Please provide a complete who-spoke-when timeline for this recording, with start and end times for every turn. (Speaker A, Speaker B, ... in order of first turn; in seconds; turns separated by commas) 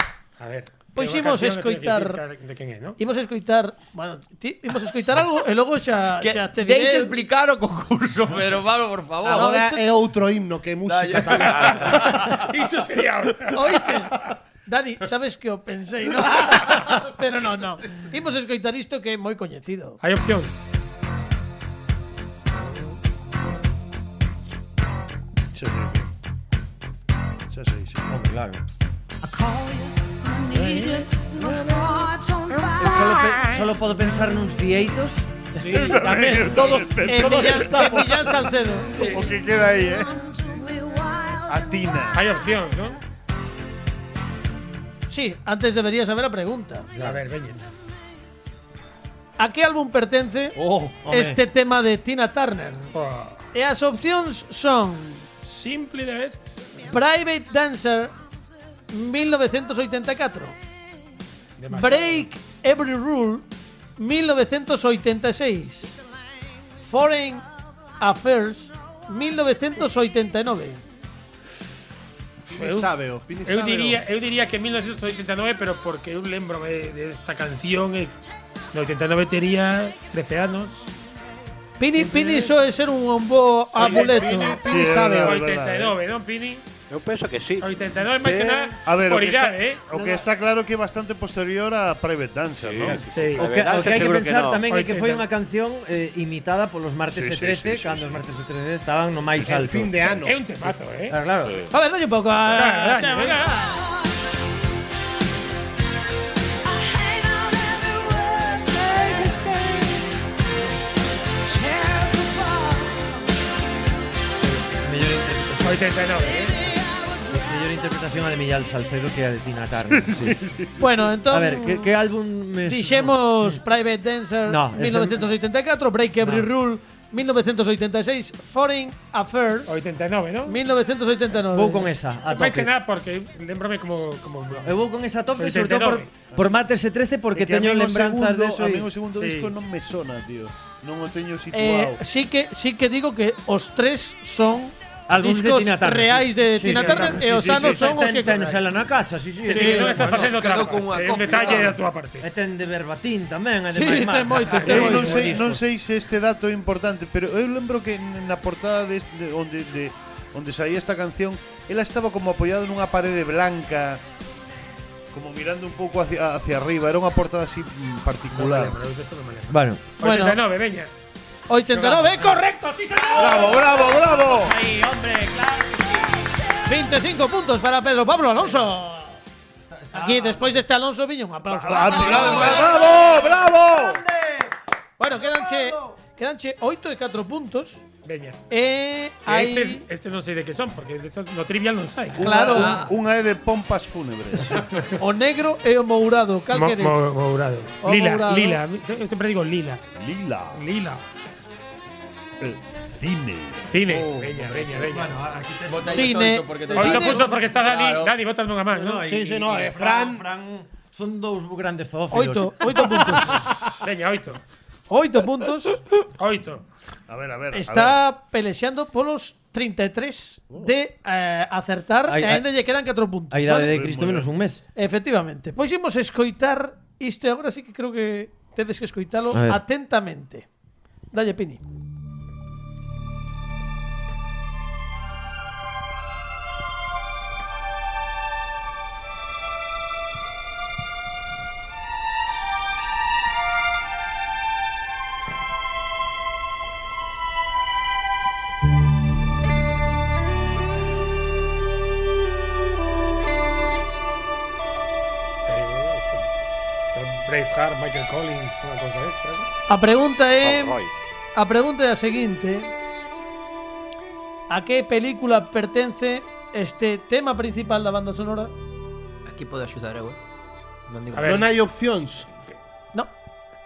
Speaker A: 0.4-3.0, Speaker B: 0.9-2.2, Speaker B: 3.0-7.2, Speaker C: 6.2-9.5, Speaker D: 9.2-11.7, Speaker B: 9.3-9.8, Speaker C: 10.8-12.5, Speaker A: 11.3-14.2, Speaker B: 13.5-20.0, Speaker A: 20.0-20.6, Speaker E: 25.5-26.1, Speaker E: 27.5-28.1, Speaker F: 28.1-28.6, Speaker A: 30.5-31.1, Speaker F: 32.8-35.6, Speaker D: 35.5-38.1, Speaker E: 35.6-40.7, Speaker B: 36.0-39.2, Speaker A: 38.9-39.3, Speaker E: 41.3-42.2, Speaker A: 42.1-43.0, Speaker B: 45.1-46.9, Speaker A: 46.9-47.7, Speaker B: 49.4-52.9, Speaker F: 50.6-51.4, Speaker A: 52.9-53.4, Speaker B: 53.5-55.3, Speaker A: 55.4-56.9, Speaker B: 56.9-58.1, Speaker B: 58.9-60.6, Speaker A: 61.6-62.3, Speaker B: 61.7-63.5, Speaker B: 64.0-66.0, Speaker B: 66.8-67.5, Speaker B: 68.0-70.8, Speaker D: 72.5-74.0, Speaker A: 72.5-72.9, Speaker A: 73.4-78.2, Speaker A: 78.7-80.9, Speaker B: 81.8-84.8, Speaker E: 83.7-86.0, Speaker A: 83.8-84.4, Speaker D: 84.6-85.4, Speaker A: 85.2-86.7, Speaker G: 86.9-87.7, Speaker A: 87.6-89.8, Speaker E: 88.2-93.4, Speaker B: 89.9-90.2, Speaker G: 92.6-94.7, Speaker A: 92.9-93.9, Speaker F: 93.4-101.5, Speaker A: 94.7-95.3, Speaker E: 97.1-98.2, Speaker D: 99.4-100.4, Speaker A: 100.3-101.2, Speaker G: 101.5-101.7, Speaker B: 101.7-103.8, Speaker A: 102.5-103.4, Speaker F: 114.4-120.4, Speaker A: 115.6-116.7, Speaker E: 119.8-121.0, Speaker B: 120.8-121.9, Speaker F: 121.3-123.6, Speaker B: 122.7-129.8, Speaker F: 124.5-125.3, Speaker F: 126.2-126.5, Speaker A: 129.7-130.6, Speaker B: 130.5-131.9, Speaker F: 131.5-132.7, Speaker A: 132.3-134.8, Speaker F: 134.6-138.9, Speaker A: 135.4-136.1, Speaker E: 137.3-142.0, Speaker A: 139.1-139.5, Speaker B: 141.5-148.5, Speaker F: 145.1-150.4, Speaker A: 146.7-148.6, Speaker A: 149.4-152.3, Speaker B: 149.5-150.0, Speaker C: 150.3-151.8, Speaker F: 152.2-155.6, Speaker B: 153.7-155.4, Speaker E: 154.5-164.0, Speaker A: 154.6-154.9, Speaker E: 165.1-168.8, Speaker A: 168.3-170.9, Speaker F: 169.5-169.8, Speaker B: 170.0-170.4, Speaker B: 171.5-173.9, Speaker A: 171.7-172.4, Speaker F: 173.1-176.3, Speaker E: 173.2-174.5, Speaker B: 176.7-179.2, Speaker F: 179.7-180.6, Speaker B: 179.9-182.4, Speaker E: 181.5-184.0, Speaker C: 181.8-182.9, Speaker F: 182.0-184.5, Speaker B: 185.0-187.8, Speaker F: 185.1-186.0, Speaker A: 188.1-188.4, Speaker B: 188.5-189.8, Speaker A: 189.3-192.2, Speaker E: 192.2-194.9, Speaker B: 192.2-192.9, Speaker C: 192.5-192.9, Speaker B: 195.0-197.2, Speaker A: 196.5-199.8, Speaker B: 197.8-198.6, Speaker E: 199.9-200.7, Speaker A: 200.5-201.0, Speaker E: 202.4-203.7, Speaker A: 203.7-205.2, Speaker F: 204.2-207.4, Speaker C: 205.7-208.1, Speaker B: 205.9-207.3, Speaker A: 206.8-209.1, Speaker F: 208.7-213.6, Speaker D: 209.1-210.2, Speaker B: 212.1-213.4, Speaker A: 213.8-214.4, Speaker B: 214.9-215.8, Speaker A: 216.2-216.6, Speaker E: 217.1-218.0, Speaker B: 217.5-223.7, Speaker F: 222.1-222.5, Speaker F: 223.3-224.6, Speaker E: 223.5-224.3, Speaker B: 224.8-230.5, Speaker F: 229.3-229.6, Speaker B: 231.1-231.6, Speaker A: 255.5-256.3, Speaker A: 256.9-259.5, Speaker B: 259.7-260.8, Speaker G: 260.4-260.9, Speaker B: 261.4-262.7, Speaker B: 264.5-268.5, Speaker C: 269.3-270.2, Speaker C: 270.9-271.5, Speaker A: 271.1-271.5, Speaker D: 271.2-272.3